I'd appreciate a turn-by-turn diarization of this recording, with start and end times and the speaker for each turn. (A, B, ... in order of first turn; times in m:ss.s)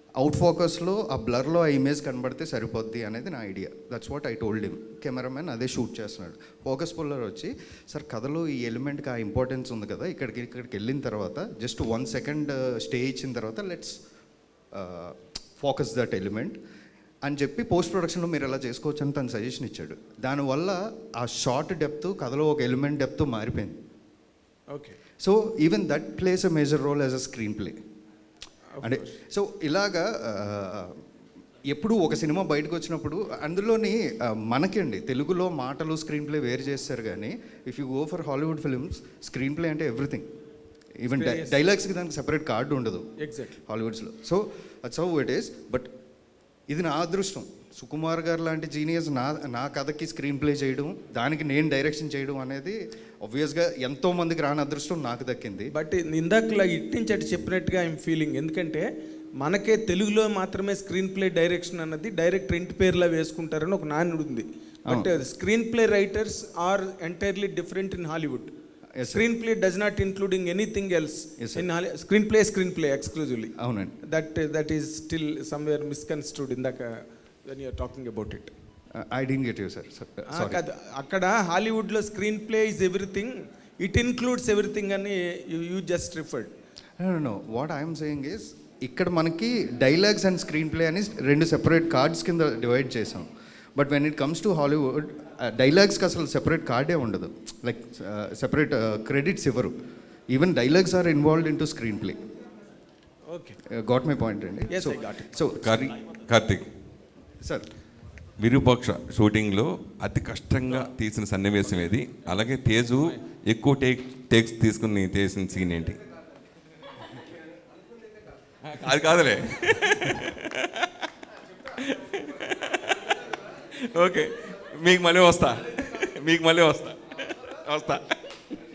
0:00.2-0:14.0 A
0:14.7-0:16.6 A
0:17.2-0:23.8 A
0:24.7-0:25.0 B
0:25.2-0:27.8 A
0:28.7-0:29.1 B
0:28.8-0:31.0 A
0:31.7-0:40.3 A
0:41.0-0:43.1 A
0:41.1-0:41.6 B
0:43.2-0:43.6 B
0:43.7-0:45.9 A
0:46.7-0:55.7 A
0:55.7-0:58.8 B
0:59.4-1:08.5 B
1:08.9-1:09.2 A
1:09.0-1:18.5 B
1:11.4-1:11.6 A
1:13.6-1:13.9 A
1:18.9-1:20.6 A
1:20.3-1:26.5 B
1:27.0-1:39.8 A
1:40.3-1:42.2 A
1:43.3-1:43.6 B
1:43.6-1:45.9 A
1:44.7-1:45.3 B
1:45.6-1:46.7 C
1:48.4-1:56.0 C
1:58.6-2:00.9 C
2:01.8-2:03.0 C
2:03.8-2:08.1 C